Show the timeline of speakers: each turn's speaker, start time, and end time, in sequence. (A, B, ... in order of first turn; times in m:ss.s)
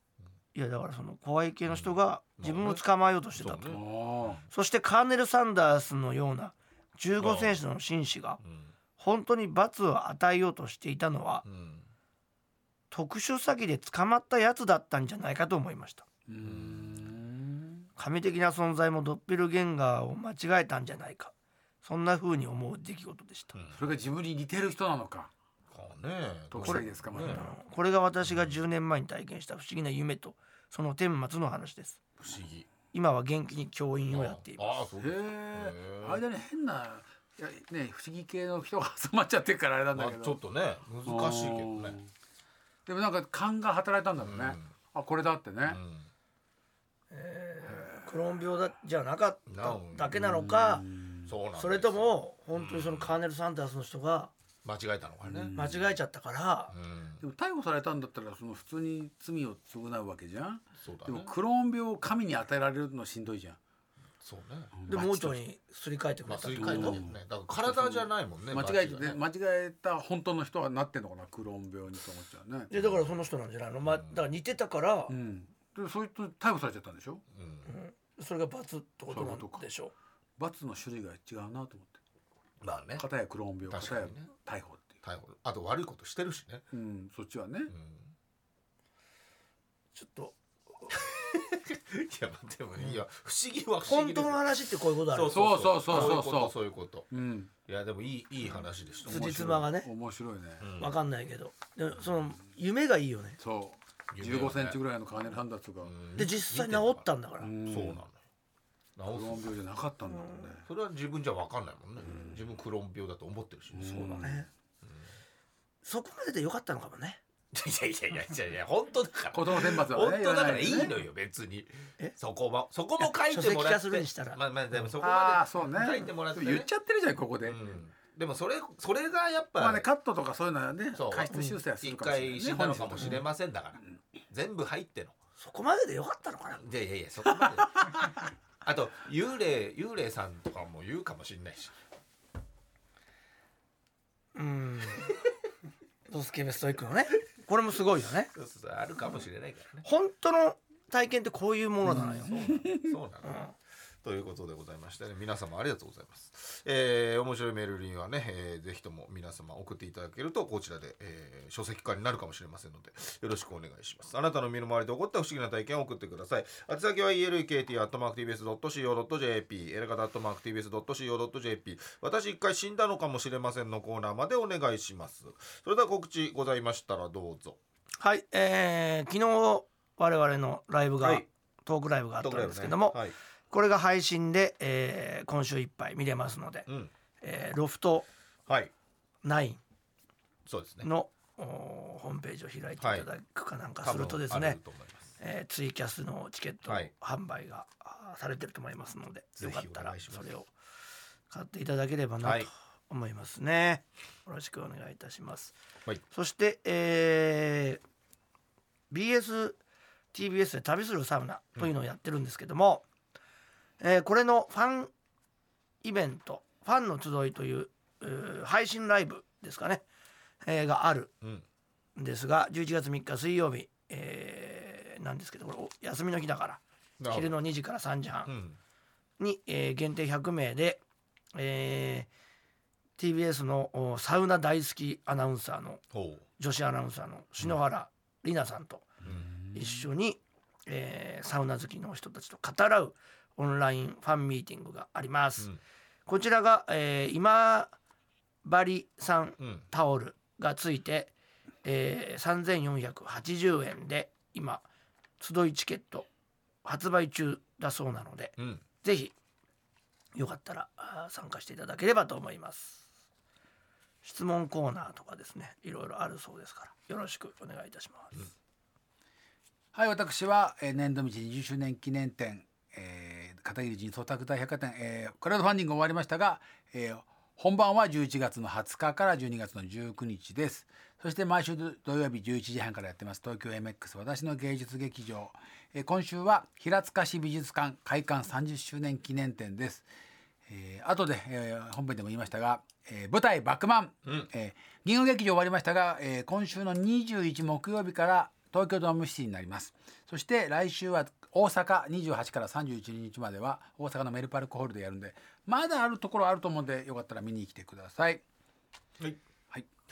0:00.6-0:03.8 A
0:01.7-0:02.8 B
0:03.4-0:04.4 B
0:03.7-0:04.4 C
0:04.5-0:08.4 A
0:07.2-0:07.6 B
0:08.4-0:08.7 B
0:09.0-0:11.5 A
0:11.4-0:11.9 B
0:12.9-0:16.0 A
0:16.3-0:17.9 C
0:16.4-0:17.1 B
0:18.0-0:21.3 A
0:21.8-0:23.5 A
0:23.5-0:23.8 B
0:23.7-0:25.3 C
0:25.7-0:27.5 B
0:26.5-0:27.5 C
0:26.6-0:32.0 A
0:32.2-0:32.7 B
0:32.9-0:34.7 A
0:34.1-0:36.2 B
0:35.0-0:40.4 C
0:40.0-0:42.0 B
0:41.0-0:42.1 C
0:42.9-0:45.8 C
0:44.2-0:44.7 B
0:45.7-0:46.1 B
0:47.1-0:50.9 A
0:49.5-0:50.1 B
0:50.1-0:51.3 C
0:51.3-0:53.1 B
0:51.6-0:54.3 A
0:54.6-0:55.7 B
0:55.2-0:55.8 C
0:55.5-0:56.8 A
0:56.7-0:57.2 B
0:57.2-1:03.6 C
1:00.8-1:01.3 B
1:04.2-1:04.8 B
1:04.8-1:05.4 C
1:04.9-1:07.0 A
1:06.3-1:09.2 B
1:06.6-1:12.7 C
1:12.7-1:15.1 A
1:13.9-1:14.2 B
1:15.1-1:17.2 C
1:17.3-1:17.7 B
1:17.7-1:19.9 A
1:19.1-1:19.6 C
1:20.4-1:22.0 C
1:22.6-1:23.0 B
1:23.0-1:24.9 C
1:23.7-1:24.3 B
1:25.0-1:26.6 B
1:26.7-1:27.7 C
1:27.7-1:28.1 B
1:30.0-1:31.0 A
1:30.9-1:37.1 B
1:33.9-1:36.2 A
1:35.3-1:36.6 C
1:37.1-1:37.5 C
1:37.7-1:39.6 B
1:39.1-1:39.9 A
1:39.1-1:40.7 C
1:40.6-1:40.9 B
1:40.8-1:43.4 A
1:43.4-1:46.0 C
1:44.1-1:44.8 B
1:45.8-1:47.1 B
1:46.2-1:47.5 A
1:47.4-1:48.0 C
1:47.6-1:48.2 B
1:49.0-1:49.5 B
1:49.1-1:50.6 C
1:50.6-1:54.3 B
1:52.0-1:52.4 C
1:53.7-1:54.5 C
1:54.2-1:54.5 A
1:55.8-1:57.2 A
1:57.5-2:06.7 B
1:59.3-2:00.9 C
2:03.0-2:04.4 A
2:05.0-2:07.6 C
2:07.4-2:09.9 B
2:09.6-2:13.3 C
2:10.9-2:15.2 B
2:15.4-2:16.6 A
2:16.6-2:18.0 B
2:17.4-2:18.2 C
2:18.6-2:21.8 B
2:24.4-2:25.2 A
2:26.1-2:28.3 A
2:28.3-2:29.9 B
2:29.8-2:32.5 A
2:31.8-2:32.9 C
2:32.1-2:33.4 B
2:33.2-2:33.5 A
2:34.0-2:57.6 B
2:58.0-3:03.0 A
3:02.2-3:03.2 B
3:03.5-3:06.7 A
3:07.2-3:08.1 A
3:09.2-3:09.6 A
3:10.5-3:10.9 B
3:10.8-3:14.6 A
3:12.8-3:13.1 B
3:13.8-3:15.2 B
3:15.2-3:20.5 A
3:16.7-3:16.9 B
3:19.4-3:20.3 B
3:21.3-3:25.5 A
3:22.2-3:22.5 B
3:26.1-3:27.8 A
3:28.9-3:29.6 A
3:30.1-3:32.8 A
3:33.8-3:34.9 A
3:35.8-3:39.8 A
3:40.4-3:41.1 A
3:42.0-3:48.3 A
3:47.0-3:47.4 B
3:48.3-3:48.6 B
3:49.2-3:50.8 A
3:51.4-3:52.1 A
3:53.0-3:55.8 A
3:55.9-3:56.2 B
3:56.4-3:59.0 A
3:59.1-3:59.9 C
3:59.5-4:05.5 A
4:06.1-4:07.8 A
4:08.4-4:11.1 A
4:09.4-4:09.7 B
4:11.6-4:14.6 A
4:15.2-4:16.1 A
4:16.6-4:19.1 A
4:18.4-4:18.6 B
4:20.2-4:22.8 A
4:24.0-4:28.2 A
4:29.7-4:49.9 C
4:50.5-5:08.2 C